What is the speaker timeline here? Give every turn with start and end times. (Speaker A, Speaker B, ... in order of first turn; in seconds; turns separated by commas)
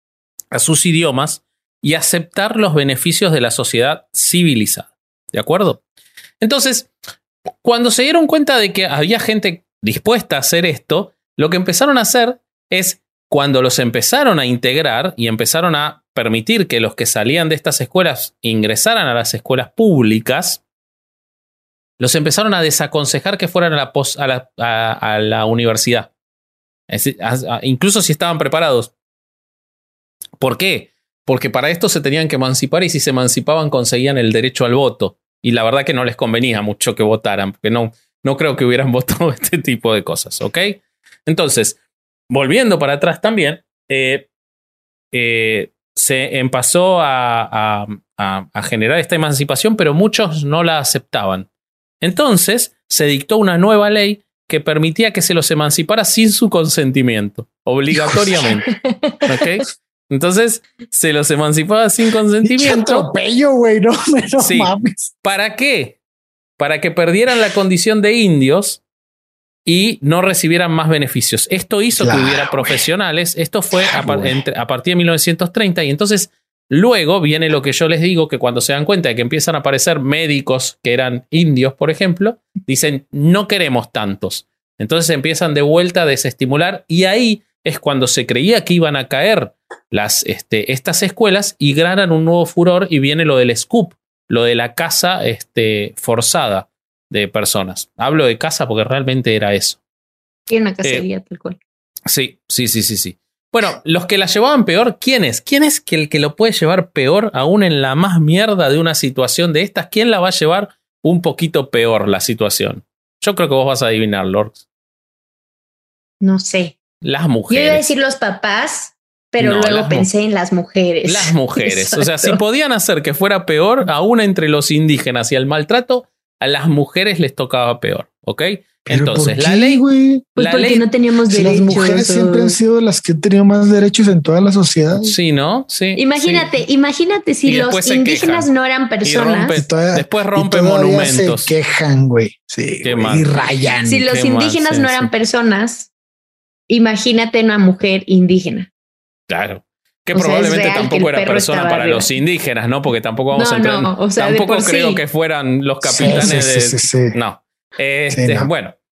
Speaker A: 0.5-5.8, Speaker A: 6.4-6.9, Speaker A: 7.6-20.6, Speaker A: 22.0-26.1, Speaker A: 26.9-28.9, Speaker A: 30.4-41.8, Speaker A: 42.3-44.3, Speaker A: 45.1-51.5, Speaker A: 52.0-58.7, Speaker B: 57.9-58.5, Speaker C: 58.9-59.2, Speaker A: 59.2-63.1, Speaker B: 62.4-65.1, Speaker A: 64.4-64.7, Speaker A: 65.2-66.0, Speaker A: 66.6-68.8, Speaker A: 69.7-99.8, Speaker B: 71.9-72.8, Speaker B: 73.8-74.4, Speaker C: 100.5-101.6, Speaker A: 102.1-114.6, Speaker C: 116.2-116.8, Speaker A: 117.0-117.8, Speaker C: 117.5-122.3, Speaker A: 119.4-120.1, Speaker A: 121.0-129.8, Speaker B: 128.9-130.3, Speaker C: 130.4-132.6, Speaker A: 130.4-130.8, Speaker B: 131.3-135.2, Speaker A: 135.0-136.5, Speaker C: 135.9-139.6, Speaker A: 137.5-138.5, Speaker A: 139.0-141.6, Speaker B: 139.5-144.0, Speaker A: 142.8-145.1, Speaker C: 143.8-145.9, Speaker C: 146.7-148.7, Speaker A: 149.3-158.8, Speaker C: 150.1-152.1, Speaker C: 153.3-155.0, Speaker B: 155.8-157.2, Speaker B: 158.1-158.5